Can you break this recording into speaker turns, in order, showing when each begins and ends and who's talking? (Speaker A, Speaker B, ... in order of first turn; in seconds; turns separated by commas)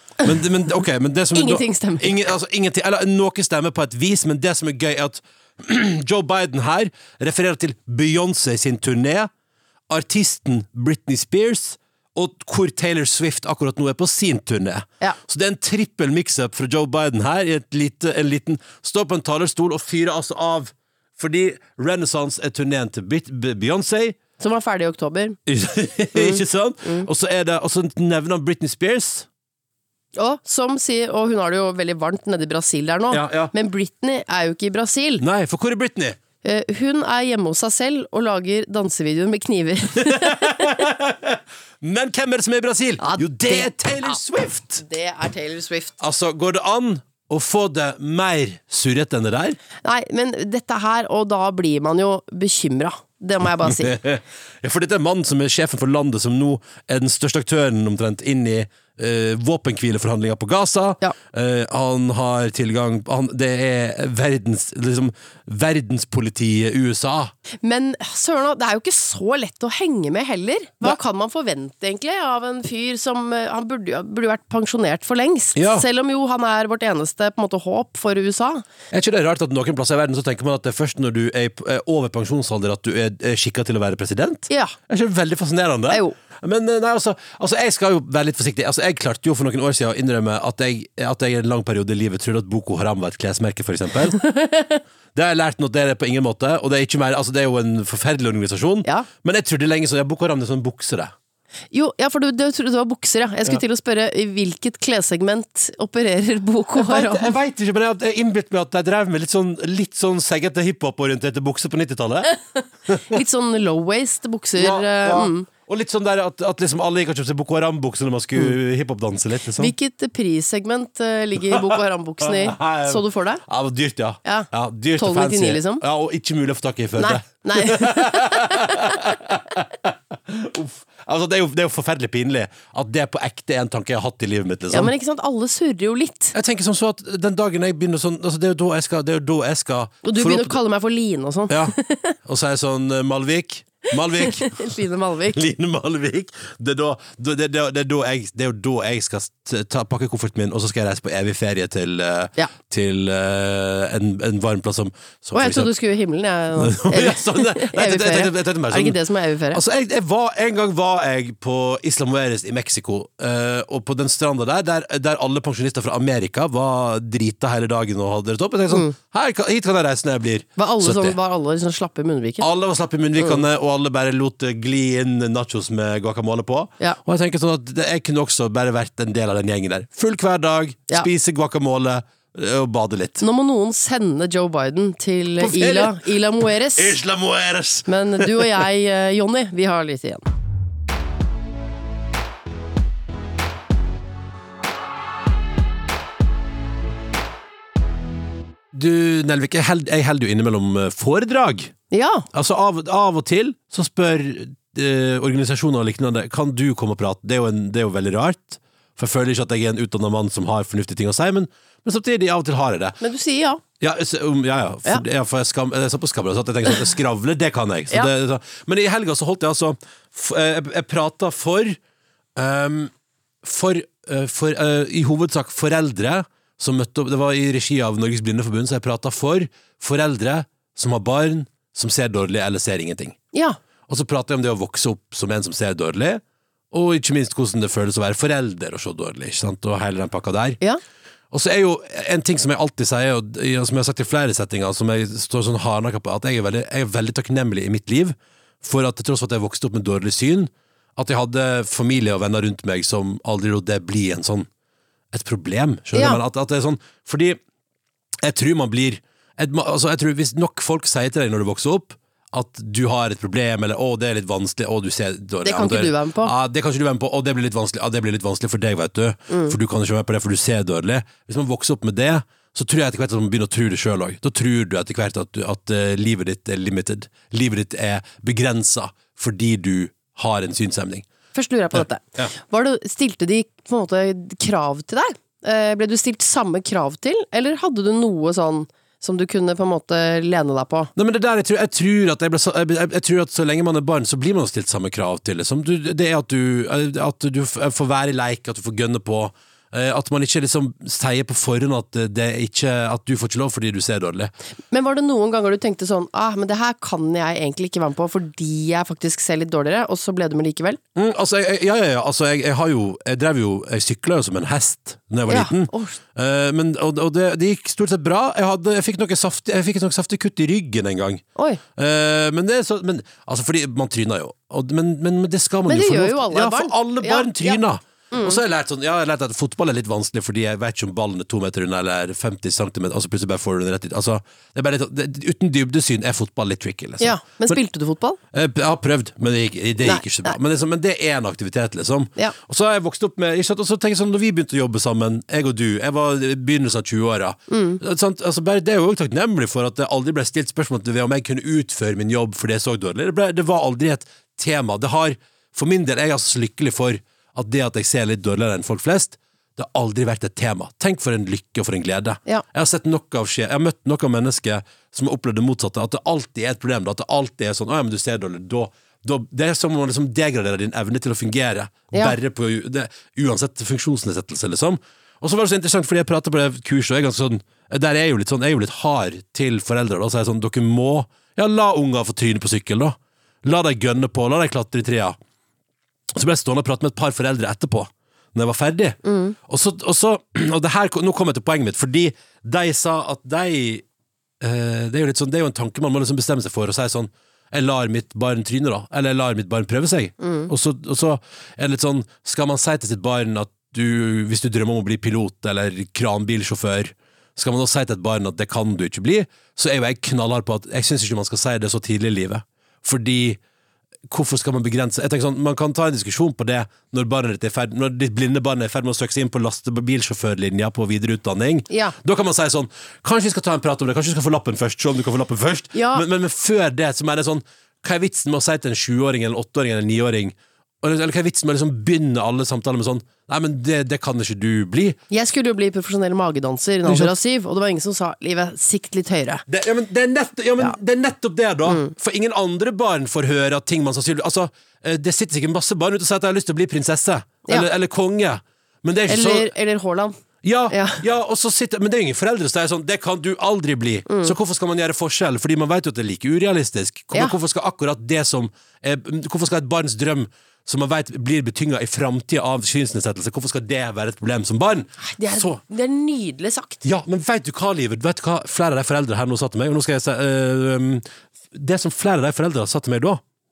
Speaker A: 0.2-9.3, Speaker B: 1.3-2.3, Speaker A: 9.9-24.2, Speaker B: 24.4-25.4, Speaker A: 25.5-29.3, Speaker B: 26.1-27.1, Speaker B: 30.1-35.2, Speaker A: 33.1-33.5, Speaker A: 35.2-36.2, Speaker B: 36.4-40.7, Speaker A: 40.0-44.8, Speaker B: 43.0-44.2, Speaker B: 44.8-46.0, Speaker A: 46.0-49.6, Speaker B: 49.8-53.9, Speaker A: 53.6-67.3, Speaker B: 67.6-78.7, Speaker A: 75.5-75.8, Speaker A: 78.9-94.2, Speaker B: 84.5-84.8, Speaker B: 85.9-86.2, Speaker B: 94.2-94.8, Speaker A: 95.1-101.1, Speaker B: 101.7-107.3, Speaker A: 106.7-112.3, Speaker A: 112.9-113.2, Speaker B: 113.1-115.5, Speaker A: 114.6-119.7, Speaker B: 119.6-123.4, Speaker A: 121.4-134.9, Speaker B: 124.2-125.8, Speaker B: 127.0-129.0, Speaker B: 134.7-136.3, Speaker A: 136.3-140.6, Speaker B: 140.0-142.1, Speaker A: 141.5-144.8, Speaker B: 144.2-145.4, Speaker A: 145.3-155.7, Speaker B: 155.3-159.6, Speaker A: 156.6-159.0, Speaker A: 159.5-171.2, Speaker B: 168.7-168.9, Speaker B: 170.6-172.4, Speaker A: 172.4-183.2, Speaker B: 173.2-173.4, Speaker B: 183.2-187.0, Speaker A: 185.4-188.5, Speaker B: 187.9-190.2, Speaker A: 198.7-201.7, Speaker B: 201.9-202.3, Speaker A: 202.3-213.0, Speaker B: 213.0-213.6, Speaker A: 213.8-221.8, Speaker A: 222.3-222.9, Speaker A: 223.4-233.2, Speaker B: 233.3-233.6, Speaker A: 233.9-240.6, Speaker A: 241.3-254.5, Speaker A: 255.1-257.4, Speaker B: 255.9-256.2, Speaker A: 258.2-281.1, Speaker B: 265.4-266.3, Speaker B: 269.3-269.6, Speaker B: 281.3-290.9, Speaker A: 281.7-282.3, Speaker A: 290.9-304.3, Speaker B: 304.7-310.8, Speaker A: 310.9-321.2, Speaker B: 315.3-316.0, Speaker B: 321.4-321.6, Speaker A: 321.8-337.6, Speaker B: 325.7-328.4, Speaker B: 337.0-338.2, Speaker A: 338.3-385.2, Speaker B: 339.8-340.3, Speaker B: 347.5-347.8, Speaker B: 371.9-372.2, Speaker A: 386.1-393.8, Speaker B: 389.0-389.4, Speaker A: 394.4-413.4, Speaker B: 400.2-400.5, Speaker A: 414.1-435.0, Speaker B: 421.7-421.9, Speaker B: 425.7-426.0, Speaker B: 435.1-439.4, Speaker A: 436.8-437.1, Speaker A: 439.5-449.5, Speaker B: 441.6-441.9, Speaker B: 449.1-451.0, Speaker A: 450.4-465.6, Speaker B: 454.1-454.3, Speaker B: 465.0-466.8, Speaker A: 466.8-473.2